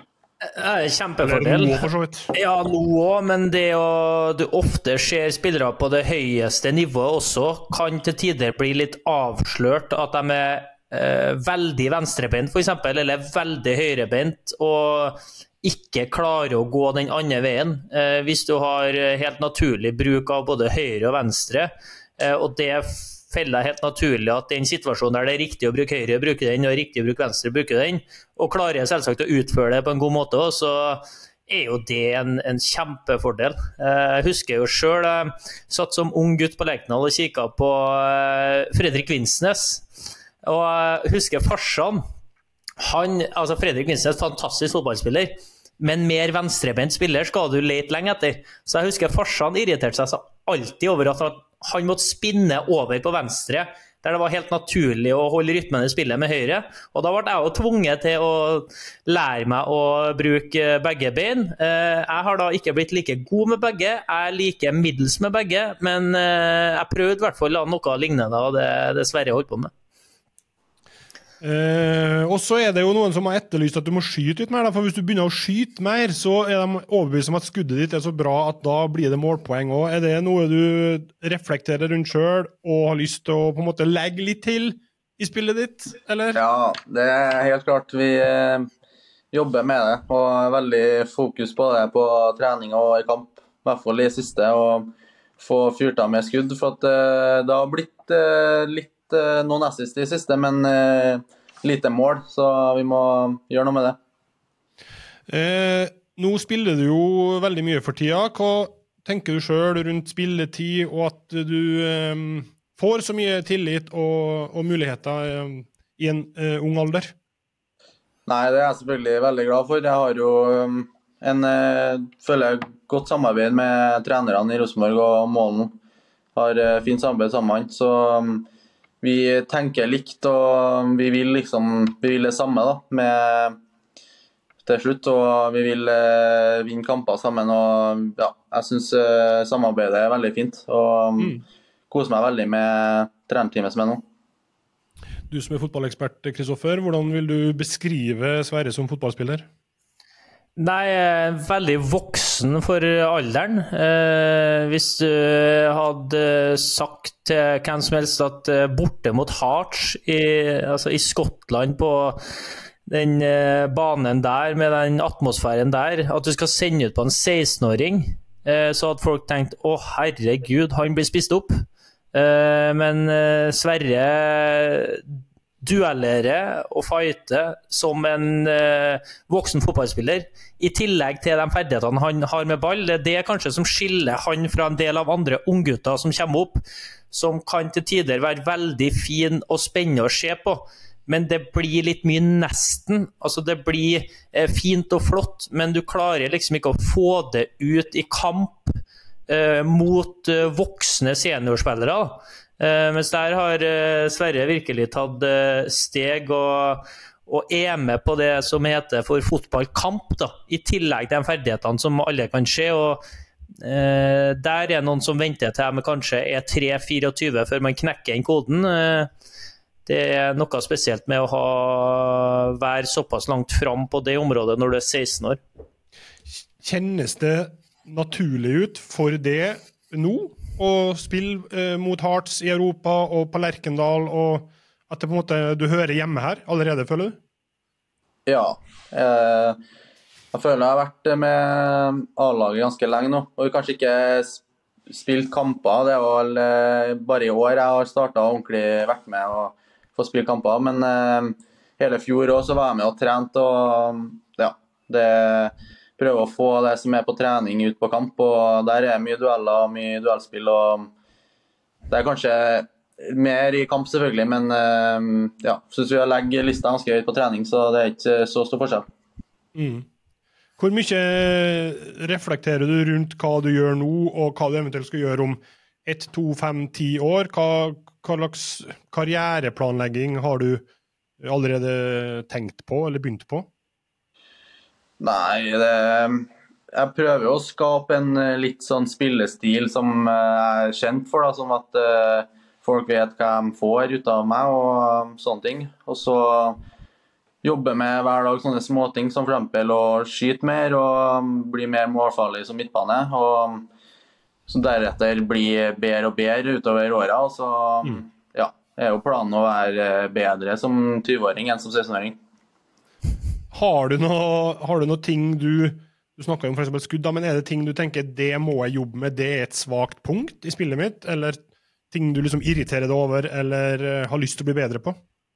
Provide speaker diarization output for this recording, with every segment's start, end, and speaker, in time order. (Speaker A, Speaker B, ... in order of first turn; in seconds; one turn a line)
Speaker A: 0.4-39.9
Speaker B: 1.2-2.3
Speaker A: 40.4-42.0
Speaker A: 42.8-69.7
Speaker B: 71.4-86.4
Speaker C: 86.3-88.7
Speaker C: 89.3-104.0
Speaker B: 105.3-117.1
Speaker C: 118.3-125.7
Speaker C: 126.3-128.5
Speaker C: 129.0-133.6
Speaker C: 134.6-141.4
Speaker C: 141.9-144.0
Speaker B: 145.3-149.5
Speaker A: 150.6-171.5
Speaker A: 172.1-213.0
Speaker A: 213.6-219.1
Speaker A: 219.8-225.4
Speaker B: 226.6-237.2
Speaker C: 238.3-239.6
Speaker C: 240.3-260.9
Speaker C: 261.9-268.9
Speaker B: 269.5-269.9
Speaker B: 270.6-280.6
Speaker B: 281.2-283.5
Speaker C: 285.0-296.6
Speaker C: 297.4-303.7
Speaker C: 304.5-312.2
Speaker B: 313.5-324.9